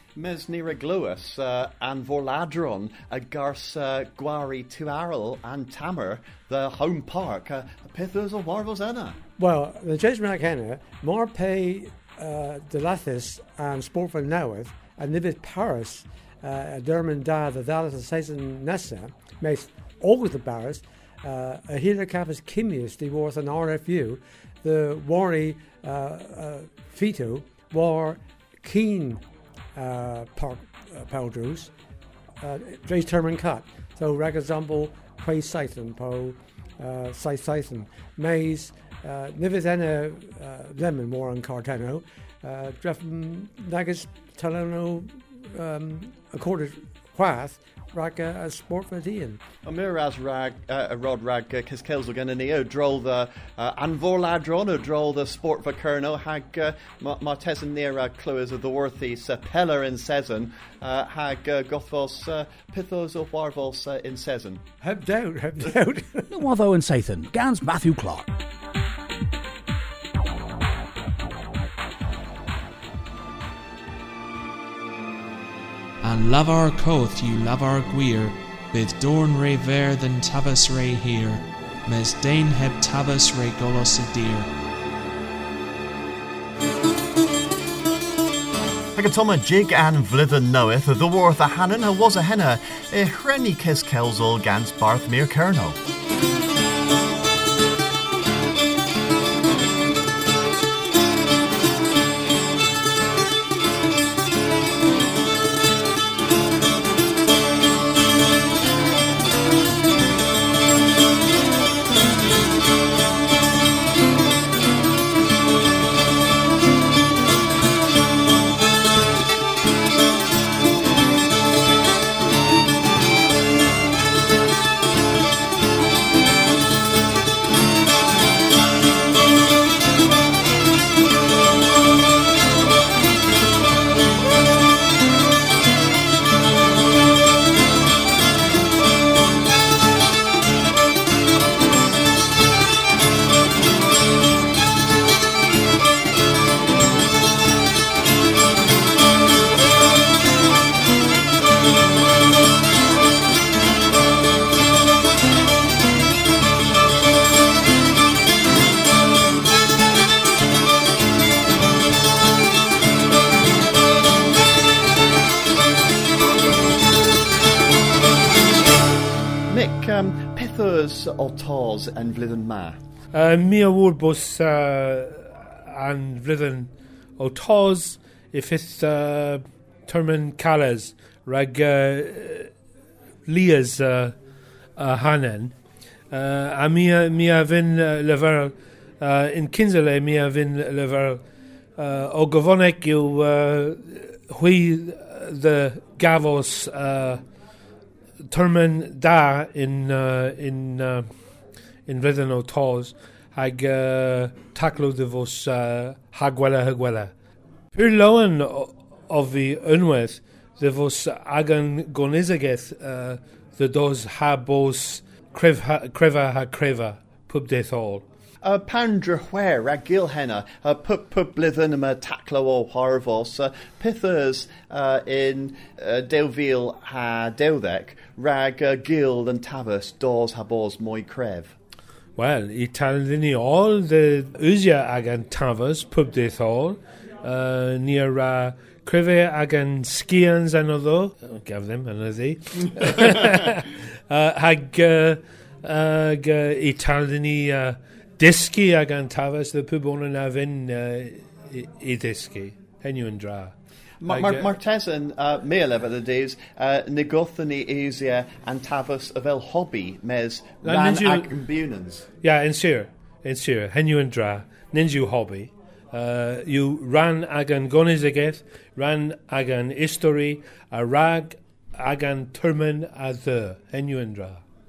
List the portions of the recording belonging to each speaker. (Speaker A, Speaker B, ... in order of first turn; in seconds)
Speaker A: 0.1-9.2, 49.6-64.6, 88.9-95.8, 169.5-172.8, 218.4-231.5, 254.0-262.1
Speaker B: 9.4-29.2, 29.8-31.7, 32.4-49.4, 64.8-66.3
Speaker C: 66.3-68.3
Speaker D: 76.0-84.5
Speaker E: 173.1-182.5, 183.3-184.1, 184.8-185.5, 186.1-191.2, 191.8-197.2, 198.3-201.1, 201.8-207.1, 207.7-218.0, 232.2-253.5, 254.1-254.5, 260.6-261.3, 262.2-274.4